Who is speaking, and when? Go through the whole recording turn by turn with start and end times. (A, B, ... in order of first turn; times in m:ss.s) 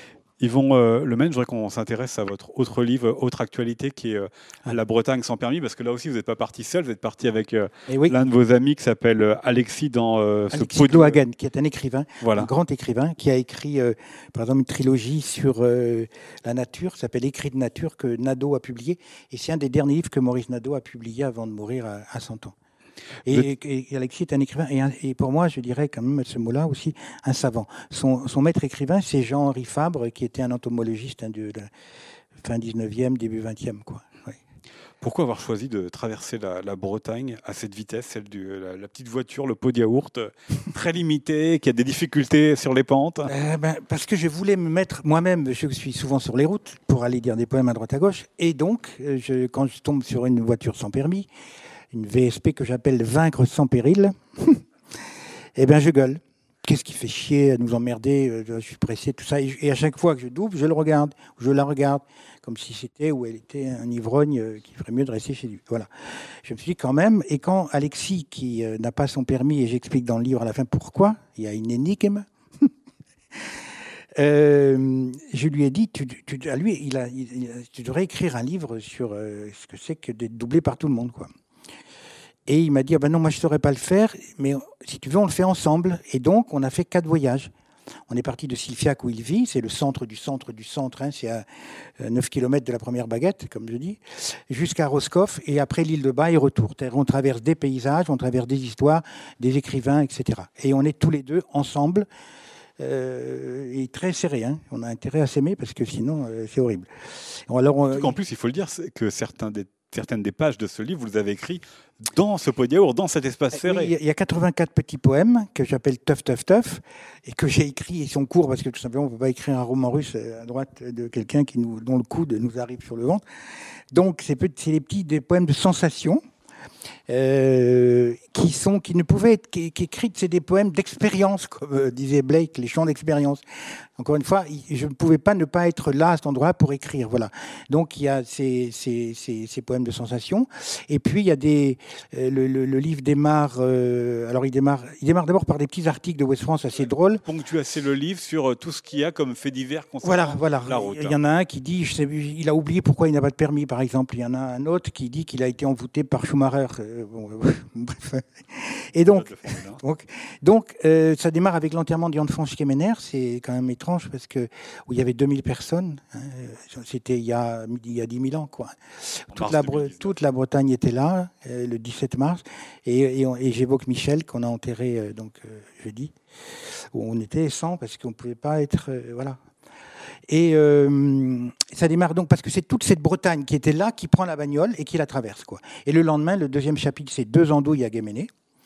0:00.4-0:11.2 A
0:07.9-0:08.1 B
0:10.5-0:22.5 B
0:12.2-0:12.5 A
0:23.2-0:31.7 B
0:32.4-0:34.4 B
0:35.0-0:43.3 A
0:43.2-0:51.3 B
0:51.9-0:54.6 B
0:55.6-1:12.7 B
1:14.2-1:21.3 B
1:22.5-1:27.5 B
1:28.1-1:42.1 B
1:42.8-1:48.2 B
1:47.9-1:53.9 A
1:53.5-2:03.2 B
2:03.9-2:06.2 B
2:07.1-2:27.2 B
2:27.2-2:31.2 A
2:30.0-2:59.4 B
2:39.0-2:39.8 A
2:49.3-2:50.1 A
3:00.3-3:08.3 B